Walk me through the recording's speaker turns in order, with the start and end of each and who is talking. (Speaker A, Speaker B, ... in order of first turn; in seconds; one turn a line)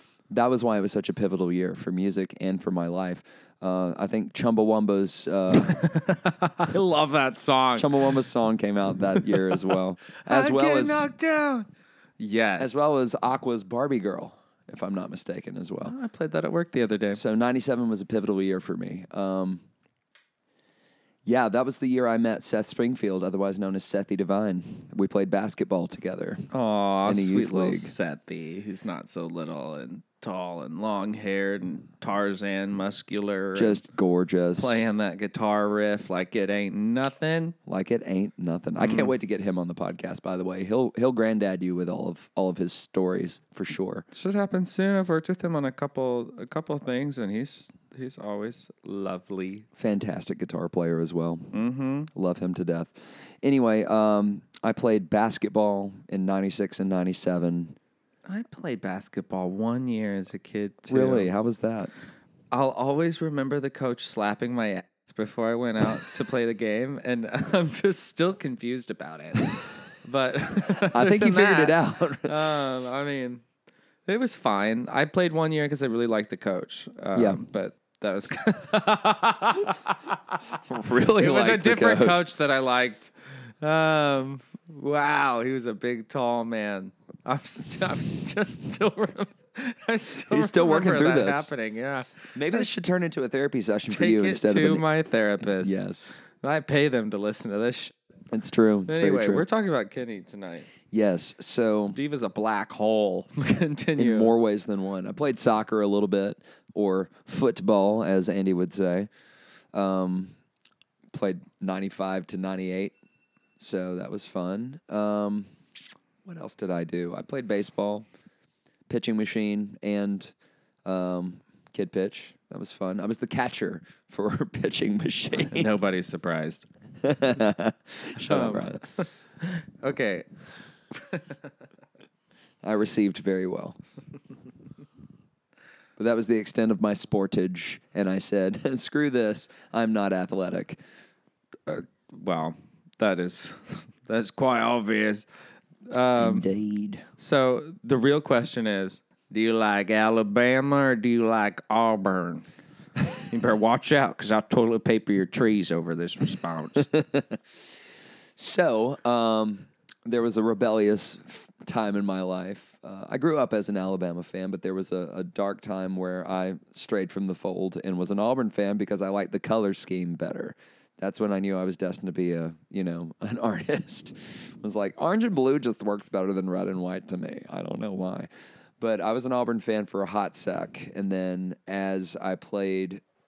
Speaker A: 0.3-5.8
Speaker B: 5.5-8.2
Speaker A: 7.8-11.1
Speaker B: 9.2-12.8
Speaker A: 12.6-15.9
Speaker B: 15.8-17.2
Speaker A: 17.1-19.6
Speaker A: 21.2-26.5
Speaker B: 26.5-33.8
Speaker A: 27.1-27.9
Speaker A: 33.5-34.8
Speaker B: 34.6-37.6
Speaker A: 37.7-44.1
Speaker B: 38.8-39.1
Speaker B: 44.1-49.7
Speaker A: 49.8-51.6
Speaker B: 51.5-52.1
Speaker A: 52.1-57.8
Speaker B: 58.3-61.3
Speaker A: 60.9-61.9
Speaker B: 62.5-73.4
Speaker A: 70.8-72.4
Speaker B: 74.1-92.7
Speaker A: 80.7-82.3
Speaker A: 90.3-91.5
Speaker A: 92.3-94.8
Speaker B: 93.9-95.8
Speaker A: 95.6-96.2
Speaker B: 96.3-98.0
Speaker A: 98.3-99.5
Speaker B: 98.9-100.7
Speaker A: 100.9-102.0
Speaker B: 101.9-104.3
Speaker A: 104.0-109.1
Speaker A: 109.7-110.3
Speaker A: 111.1-113.0
Speaker A: 113.6-115.5
Speaker A: 116.2-118.1
Speaker A: 118.9-120.3
Speaker A: 120.8-125.7
Speaker B: 125.5-126.7
Speaker A: 127.0-128.9
Speaker B: 128.2-131.5
Speaker A: 132.6-133.8
Speaker A: 136.0-140.8
Speaker B: 141.7-145.3
Speaker B: 145.8-146.5
Speaker A: 146.2-147.1
Speaker B: 147.2-152.5
Speaker B: 153.1-156.9
Speaker A: 156.8-157.4
Speaker A: 158.4-178.3
Speaker A: 178.8-183.0